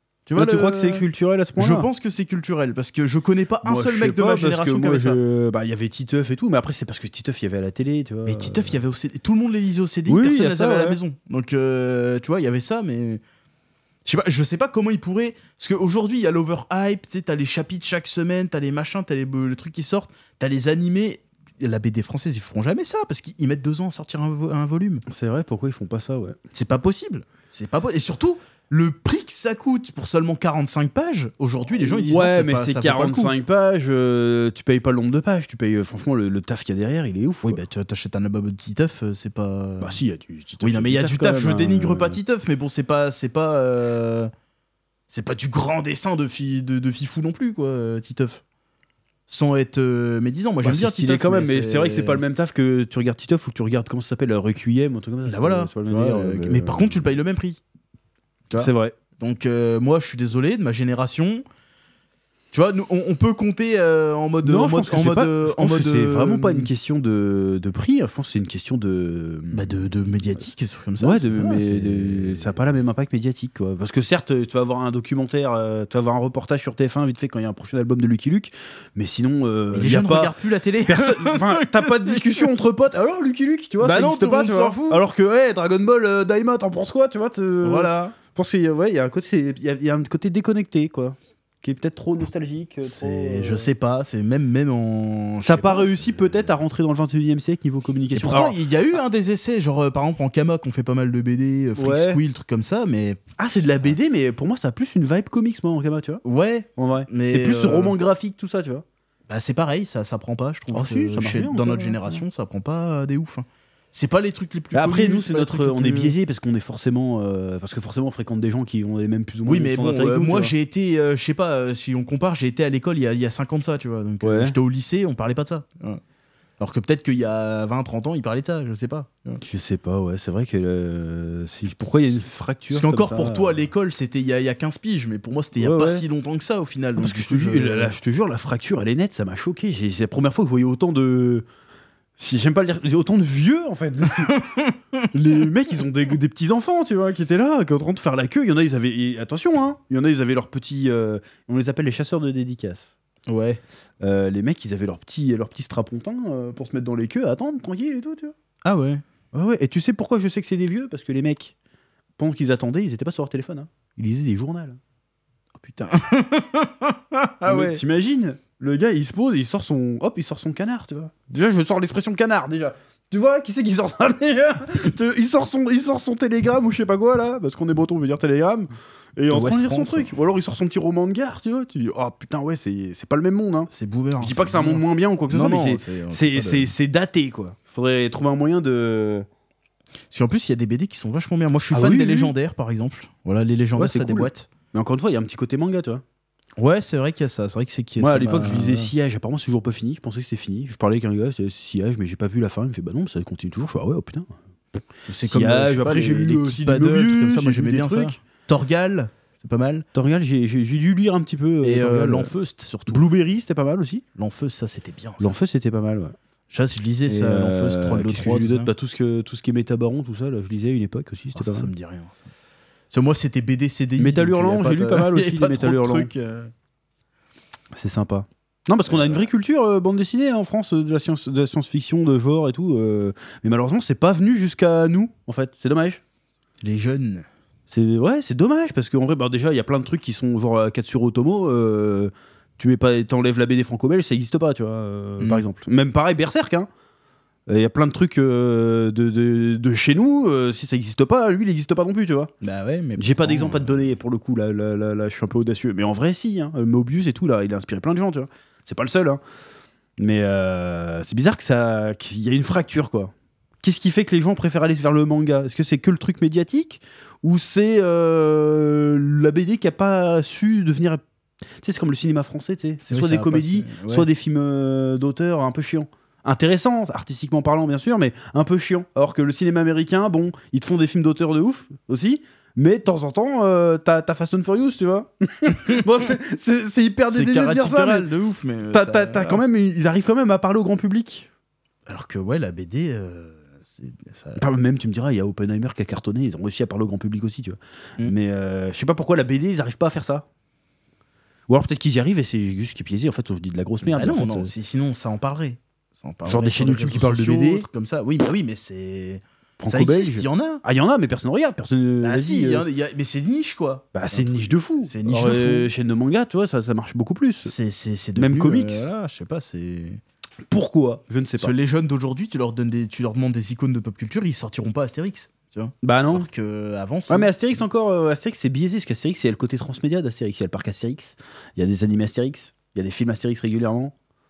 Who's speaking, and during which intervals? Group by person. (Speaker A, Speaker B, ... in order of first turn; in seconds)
Speaker A: 0.3-1.0, 1.6-5.2, 8.3-13.2, 14.0-25.0, 26.5-33.3, 37.4-40.0, 40.6-44.3, 45.1-48.4, 49.3-52.2, 55.2-57.6, 58.5-61.4, 62.5-66.7, 69.5-72.6, 79.7-82.5, 83.8-85.0, 87.6-88.2, 92.8-96.5, 98.1-103.9, 106.2-108.0, 109.3-116.1, 119.5-126.0, 126.6-129.4, 132.7-137.9, 144.2-145.1, 153.3-153.6, 158.6-159.0, 165.6-167.8, 179.3-180.1, 183.7-186.7, 190.1-194.5, 196.6-198.9, 205.1-209.8, 211.6-213.0, 214.2-215.3, 216.5-218.7, 221.3-222.2, 222.9-226.5, 228.8-229.3, 236.6-237.3, 245.2-245.4, 252.4-253.9, 272.9-274.1, 287.1-289.4, 291.9-294.4, 303.8-310.6, 312.0-315.7, 317.4-320.0, 321.4-327.3
Speaker B: 0.3-1.9, 3.6-8.8, 10.1-11.0, 25.1-26.4, 31.8-37.6, 39.8-42.2, 50.6-57.1, 58.5-59.0, 64.4-69.7, 71.0-93.7, 95.4-98.6, 101.8-102.2, 103.4-106.2, 106.8-108.8, 110.7-112.2, 114.7-120.5, 124.2-124.5, 129.4-133.6, 135.6-136.0, 137.0-141.4, 142.2-144.4, 145.1-152.9, 154.0-158.3, 159.3-161.5, 162.2-164.8, 167.4-189.2, 191.7-192.3, 193.8-196.0, 198.0-208.2, 209.9-212.3, 212.9-214.0, 215.2-216.2, 217.1-221.7, 224.0-226.1, 227.7-236.0, 237.7-246.7, 247.5-252.3, 253.0-259.2, 260.0-271.0, 271.6-288.1, 288.7-291.3, 294.4-300.2, 301.5-304.5, 306.2-307.6, 309.6-312.6, 313.9-317.5, 318.1-318.9, 320.5-321.5, 325.8-326.3, 327.1-333.9